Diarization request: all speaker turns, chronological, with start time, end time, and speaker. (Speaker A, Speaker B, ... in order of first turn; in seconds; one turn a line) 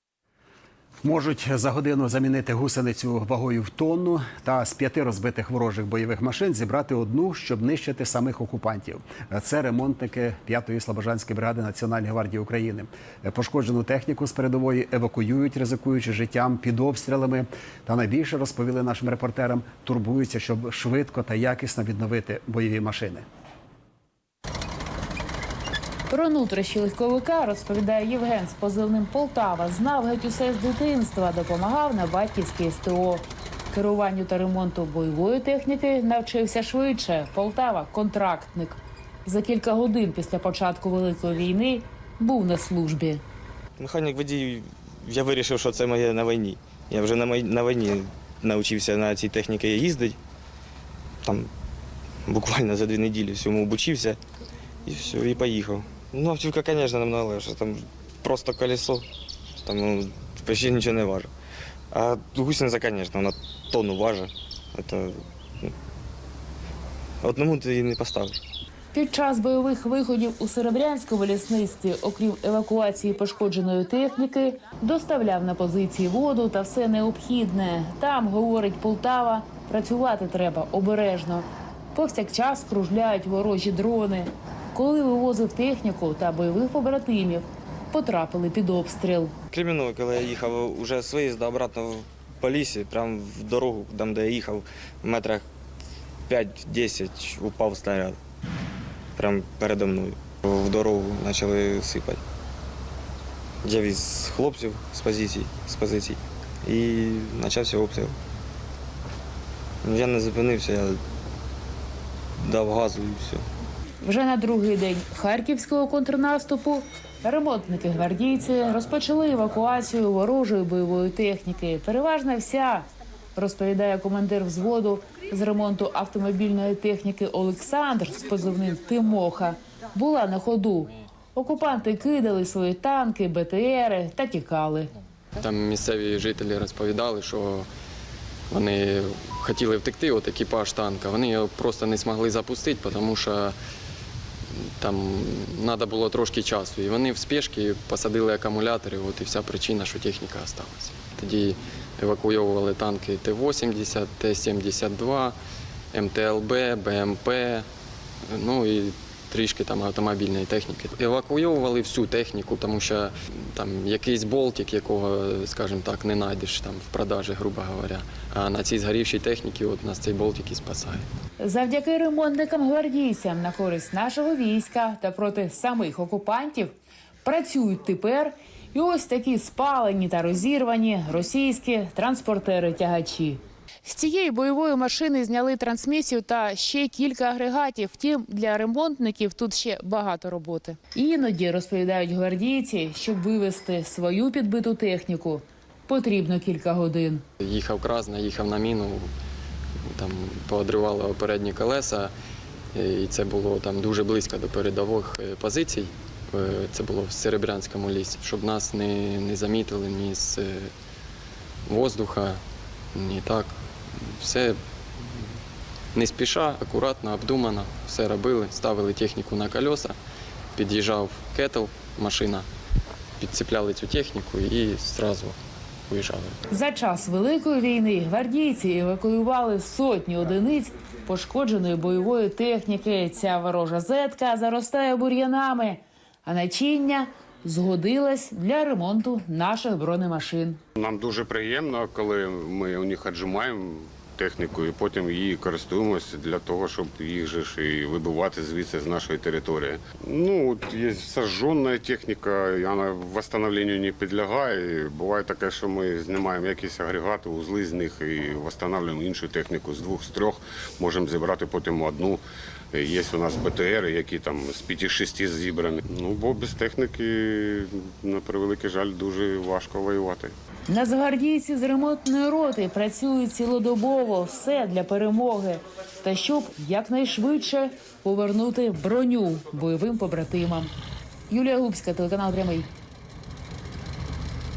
Speaker A: 1.0-23.2
Speaker B: 26.1-43.2
Speaker C: 43.8-50.2
Speaker C: 51.2-51.5
Speaker C: 52.3-54.2
Speaker C: 54.8-59.1
Speaker C: 59.6-61.3
Speaker C: 61.9-65.7
Speaker C: 67.2-68.4
Speaker B: 68.9-89.3
Speaker C: 89.5-95.5
Speaker C: 96.3-98.2
Speaker C: 99.2-102.2
Speaker C: 103.6-108.2
Speaker C: 109.8-111.0
Speaker C: 112.4-113.4
Speaker B: 114.0-134.9
Speaker D: 135.4-137.7
Speaker D: 138.5-143.6
Speaker D: 144.8-155.4
Speaker D: 155.9-157.7
Speaker D: 158.3-171.1
Speaker B: 171.4-197.2
Speaker D: 197.4-199.1
Speaker D: 199.9-202.1
Speaker D: 202.7-210.7
Speaker D: 211.7-212.4
Speaker D: 212.9-214.6
Speaker D: 215.9-220.0
Speaker D: 220.6-222.5
Speaker D: 223.2-225.4
Speaker D: 225.9-226.4
Speaker B: 226.5-240.6
Speaker E: 240.8-270.3
Speaker B: 270.7-280.7
Speaker B: 281.3-282.7